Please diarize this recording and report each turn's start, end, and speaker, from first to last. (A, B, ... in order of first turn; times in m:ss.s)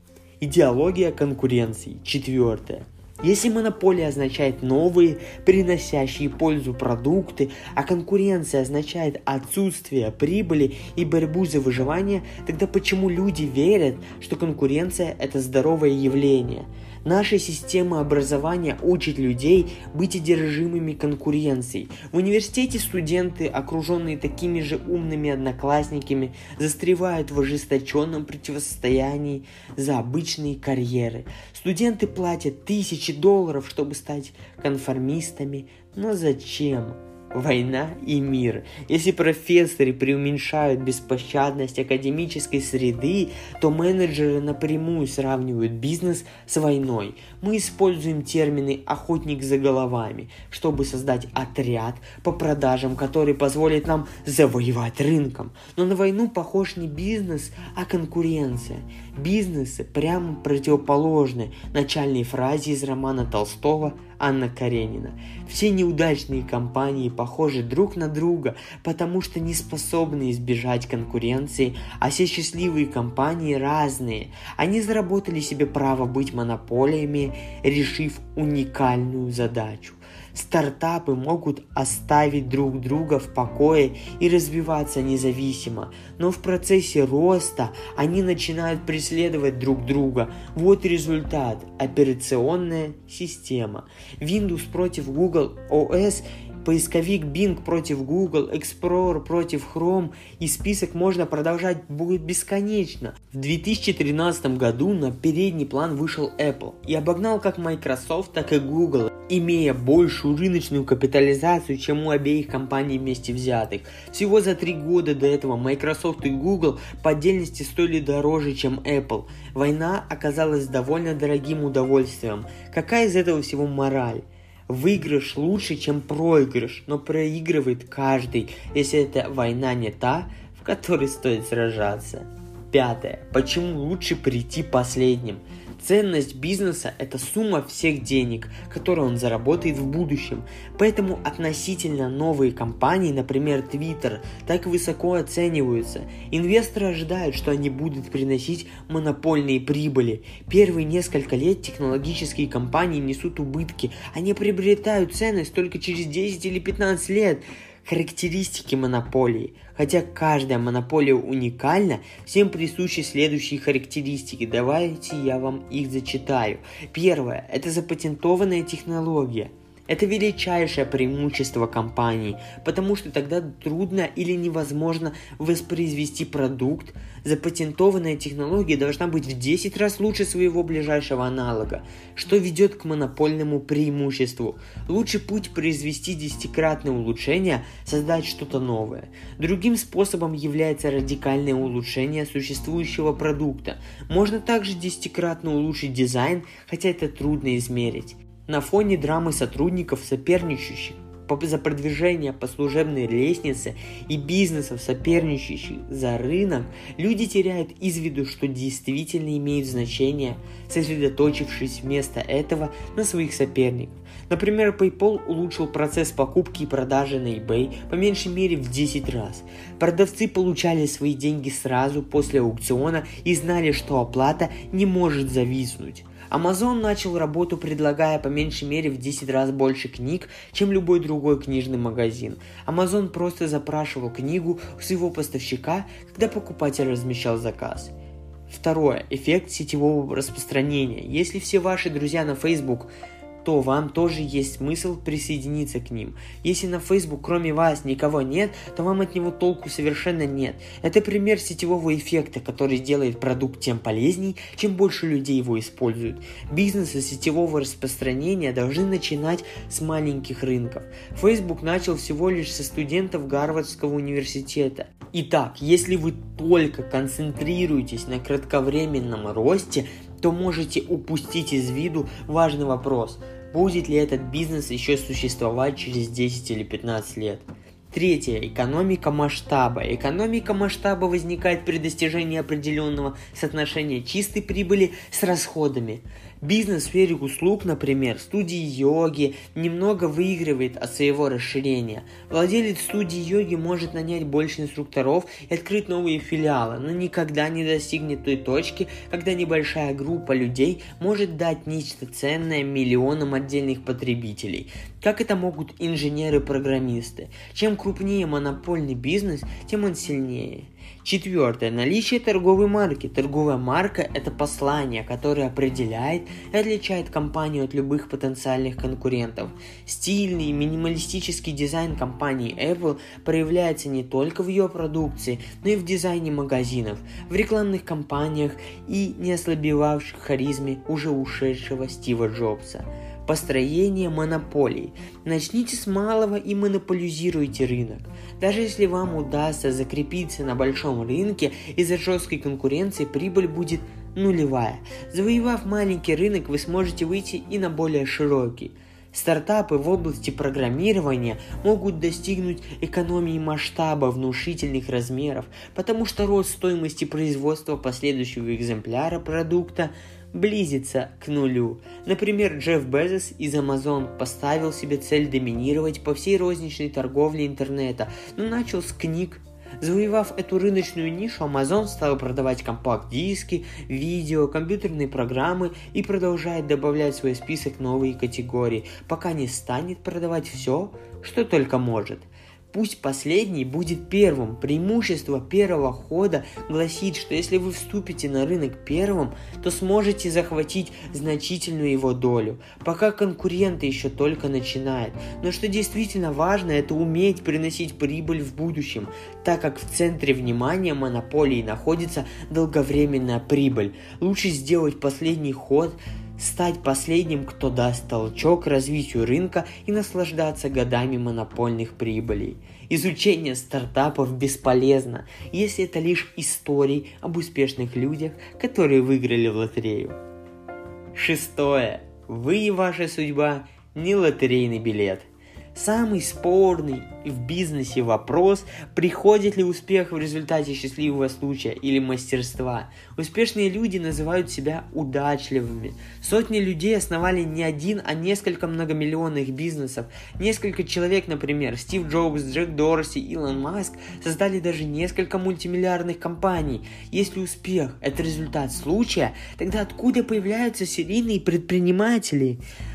0:00.4-3:57.9 A
3:58.5-4:02.9 A
4:03.4-7:00.2 A
7:01.1-7:32.6 A